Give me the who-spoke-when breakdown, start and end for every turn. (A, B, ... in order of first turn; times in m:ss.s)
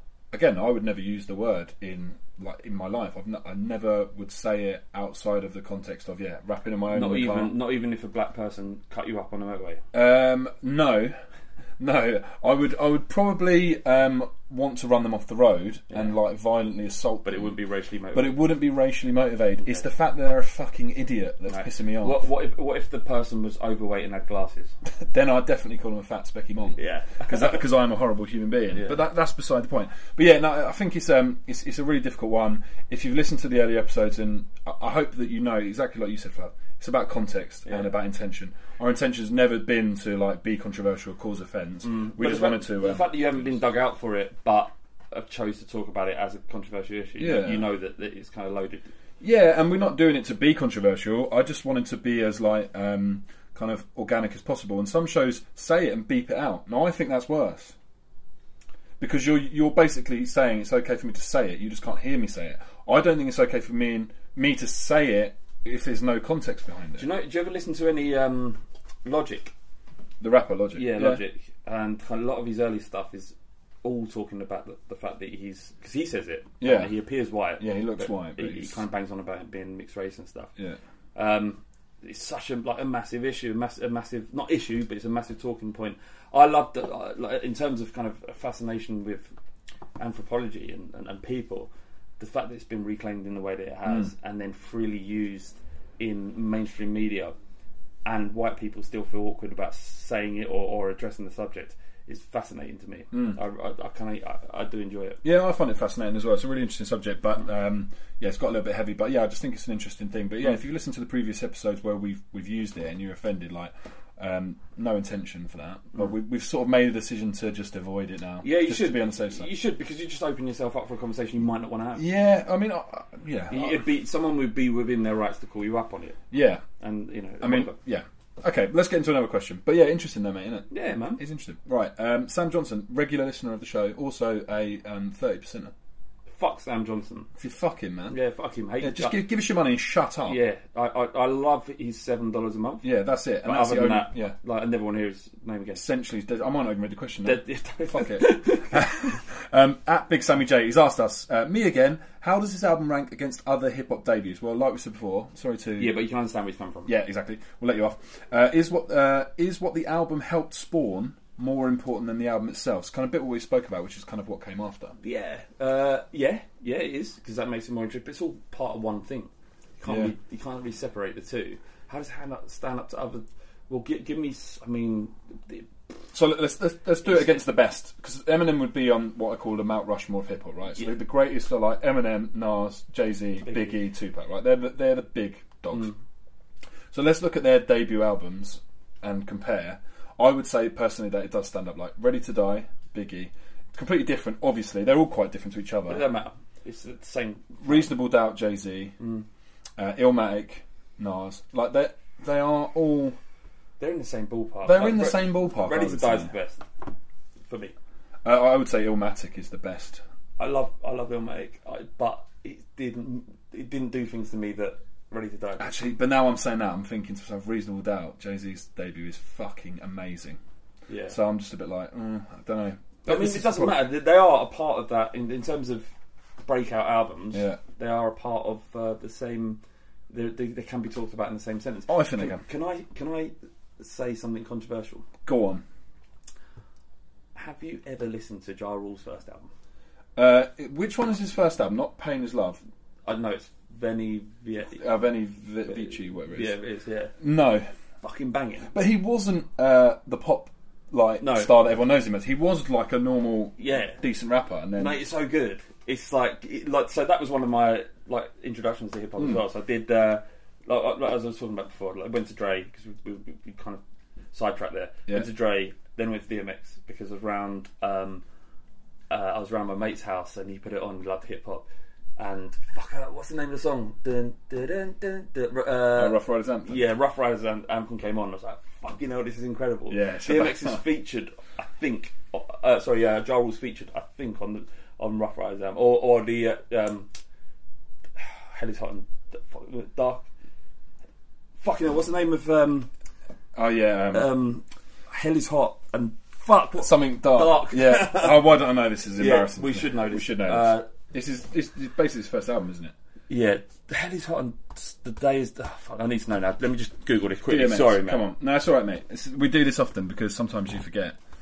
0:00.3-0:07.5 A
0:06.9-0:09.8 B
0:09.9-0:11.1 A
0:11.8-0:17.5 A
0:17.2-0:18.4 B
0:18.1-0:22.2 A
0:21.5-0:24.8 B
0:24.8-0:43.1 A
0:26.8-0:27.6 B
0:28.7-0:29.0 B
0:37.6-0:37.9 B
0:41.8-0:48.9 B
0:47.2-0:47.6 A
0:49.2-0:57.7 A
0:59.0-1:07.1 A
1:07.0-1:09.5 B
1:10.2-1:11.2 A
1:10.7-1:20.5 B
1:16.6-1:16.9 A
1:17.6-1:18.8 A
1:21.1-1:29.3 B
1:30.0-1:37.3 B
1:38.0-1:45.2 B
1:43.1-1:43.4 A
1:45.2-1:59.5 A
1:58.4-2:02.0 B
2:02.0-2:03.8 A
2:03.5-2:06.2 B
2:06.3-2:06.6 A
2:06.8-2:07.7 B
2:07.4-2:15.7 A
2:10.7-2:11.2 B
2:16.4-2:17.3 B
2:17.4-2:18.2 A
2:18.1-2:19.2 B
2:18.8-2:20.4 A
2:20.2-2:22.8 B
2:22.8-2:24.3 A
2:23.4-2:25.8 B
2:25.7-2:35.9 A
2:27.2-2:29.1 B
2:35.8-2:36.9 B
2:36.8-2:45.0 A
2:45.0-2:55.7 B
2:49.8-2:50.1 A
2:56.1-3:05.9 A
2:57.0-2:57.4 B
3:03.4-3:03.8 B
3:06.9-3:16.1 A
3:15.9-3:17.9 B
3:17.6-3:19.0 A
3:19.0-3:19.2 B
3:19.8-3:23.2 A
3:23.8-3:26.6 B
3:24.6-3:26.3 A
3:27.5-3:27.7 B
3:28.2-3:30.0 A
3:30.4-3:35.7 B
3:35.6-3:40.4 A
3:40.9-3:41.2 B
3:41.1-3:43.8 A
3:43.0-3:45.9 B
3:46.4-3:55.1 B
3:47.3-3:47.6 A
3:51.9-3:52.4 A
3:55.2-3:55.6 A
3:57.3-3:59.5 B
4:00.2-4:02.6 A
4:03.0-4:04.8 B
4:04.7-4:06.5 A
4:05.7-4:07.2 B
4:07.2-4:07.6 A
4:08.0-4:08.7 B
4:08.7-4:15.0 A
4:11.2-4:11.5 B
4:13.6-4:14.0 B
4:14.8-4:23.8 B
4:24.3-4:28.2 B
4:29.1-4:31.6 B
4:32.2-4:47.1 B
4:35.9-4:36.8 A
4:39.9-4:40.8 A
4:48.2-4:50.3 B
4:51.6-4:52.9 B
4:53.5-4:54.3 A
4:54.1-4:58.5 B
4:56.8-5:02.9 A
4:59.2-5:00.9 B
5:03.3-5:08.3 B
5:07.5-5:11.2 A